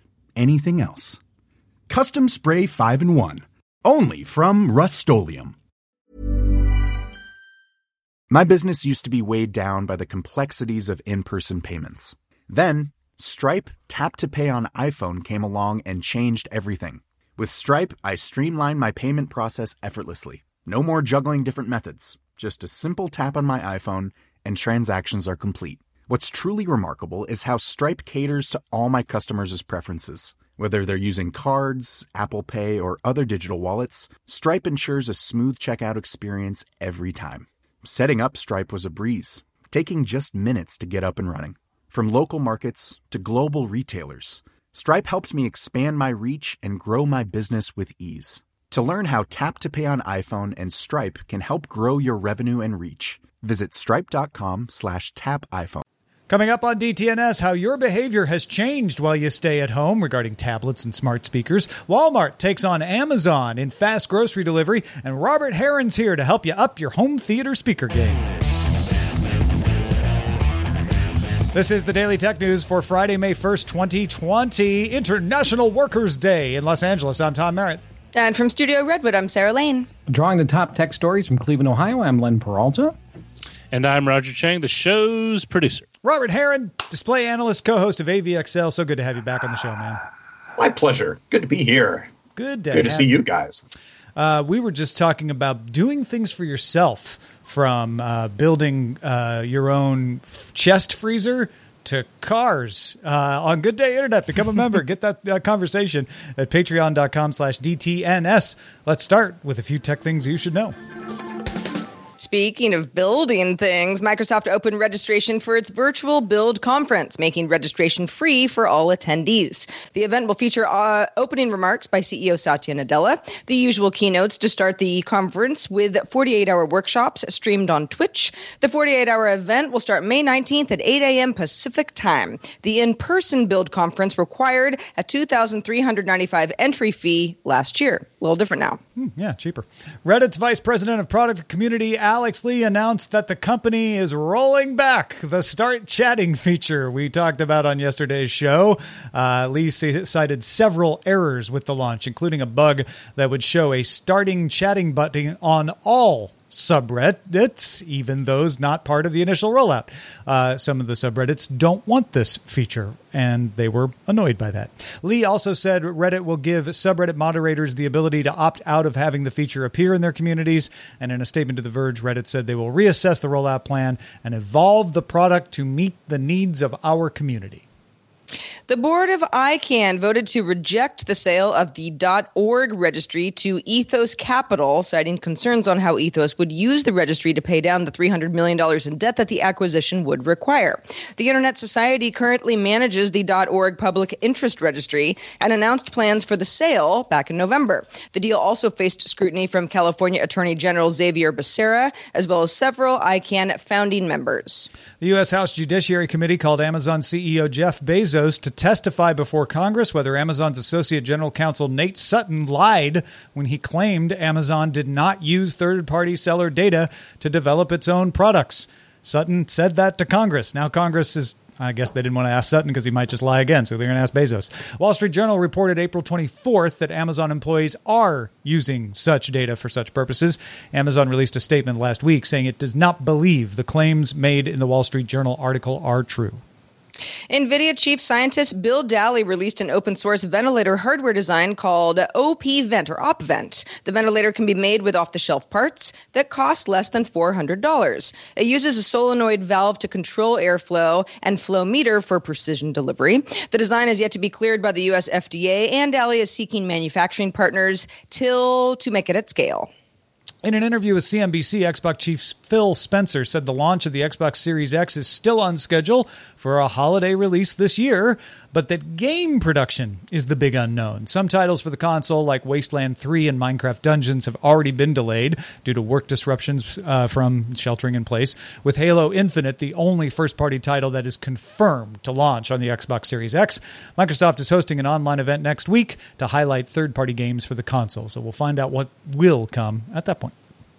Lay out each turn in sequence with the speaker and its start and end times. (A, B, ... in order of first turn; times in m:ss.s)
0:00.4-0:01.2 A
0:01.9-0:05.5 A
0:08.3-0:55.8 A
0:56.3-1:08.2 B
1:11.5-1:17.8 B
1:18.1-1:19.9 C
1:20.1-1:22.9 D
1:23.7-1:25.8 E
1:26.0-1:30.0 B
1:30.6-1:32.1 F
1:32.4-1:33.1 B
1:32.7-1:33.6 F
1:34.2-1:50.7 B
1:52.2-2:18.8 C
2:19.0-2:57.6 B
2:58.7-3:24.7 C
3:25.0-3:56.4 B
3:57.3-4:19.7 C
4:20.4-4:50.3 B